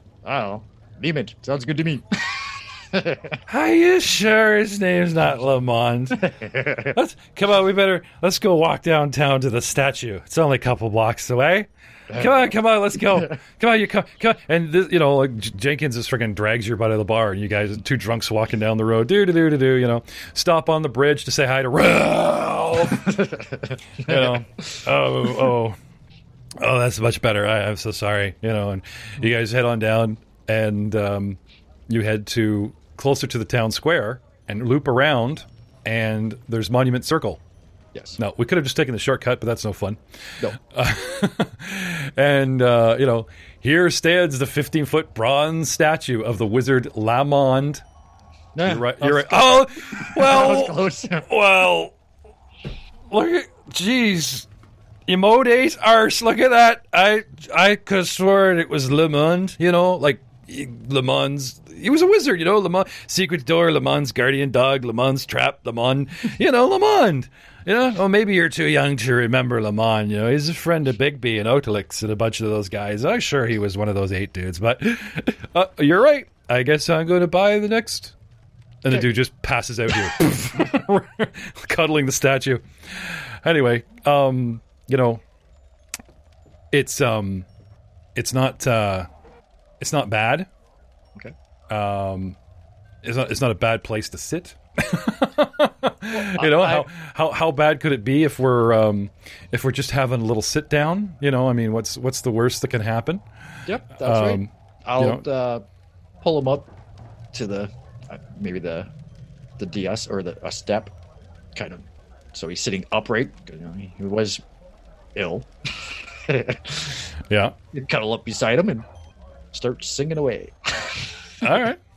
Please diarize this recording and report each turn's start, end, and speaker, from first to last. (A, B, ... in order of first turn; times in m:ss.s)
0:00.2-0:03.4 A
0:03.5-0:23.4 B
0:06.2-0:06.9 A
0:23.1-0:23.4 A
0:23.9-0:25.8 B
0:24.1-0:24.4 A
0:26.6-0:37.4 B
0:37.9-0:38.2 A
0:38.2-0:40.0 B
0:40.6-0:47.8 B
0:48.6-0:51.3 A
0:48.6-0:52.0 B
0:53.1-0:54.5 B
0:55.1-1:18.1 B
1:18.8-1:25.2 B
1:26.7-1:27.5 B
1:28.2-1:29.1 B
1:29.8-1:30.5 B
1:31.7-1:32.4 B
1:33.0-1:43.2 B
1:36.1-1:36.9 A
1:43.7-1:45.6 A
1:44.0-1:45.2 B
1:46.2-1:46.7 A
1:47.3-1:48.9 A
1:49.6-1:50.9 A
1:51.6-1:54.4 A
1:55.2-1:57.1 A
1:57.3-1:57.6 B
1:57.7-1:58.9 A
1:59.5-2:01.6 A
2:01.4-2:01.8 B